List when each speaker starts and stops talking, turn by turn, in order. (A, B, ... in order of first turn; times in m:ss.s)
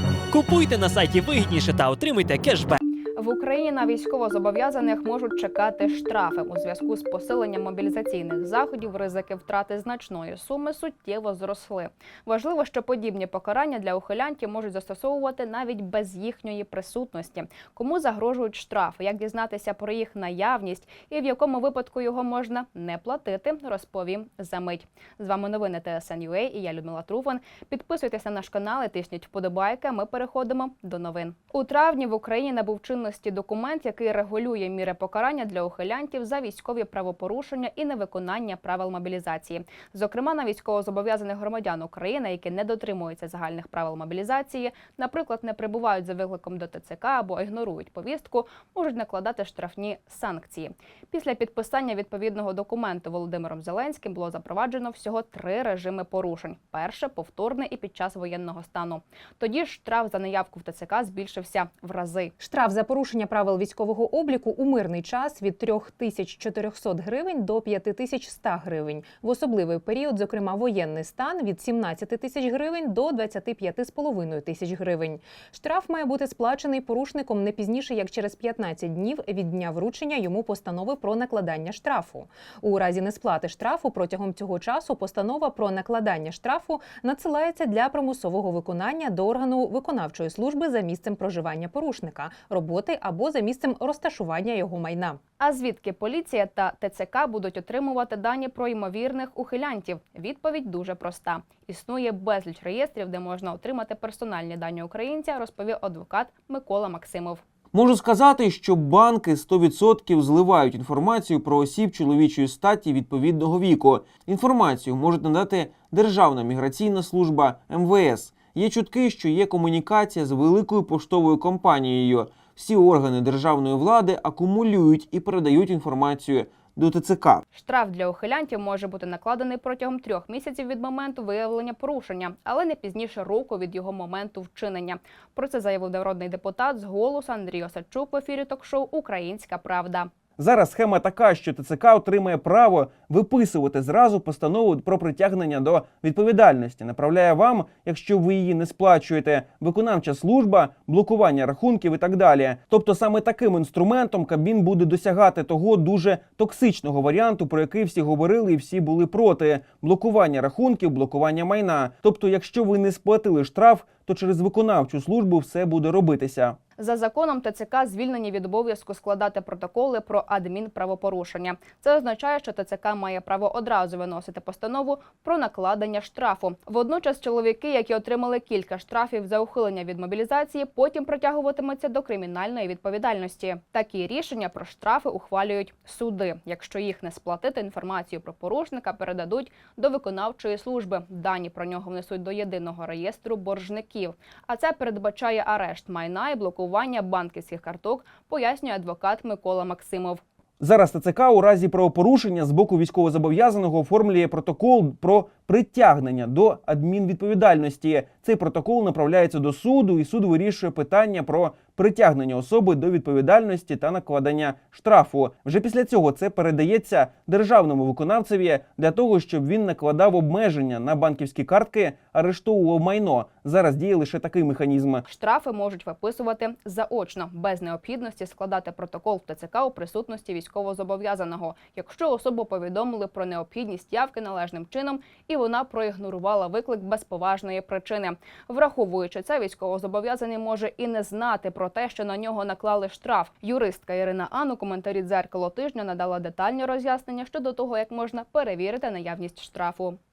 0:00.3-0:02.8 A
0:03.2-1:02.3 B
1:02.4-1:35.2 C
1:35.4-1:47.4 B
1:47.7-2:07.4 D
2:07.5-2:20.1 B
2:20.4-2:46.6 D
2:46.8-3:20.2 B
3:20.6-3:45.0 D
3:45.1-4:10.0 B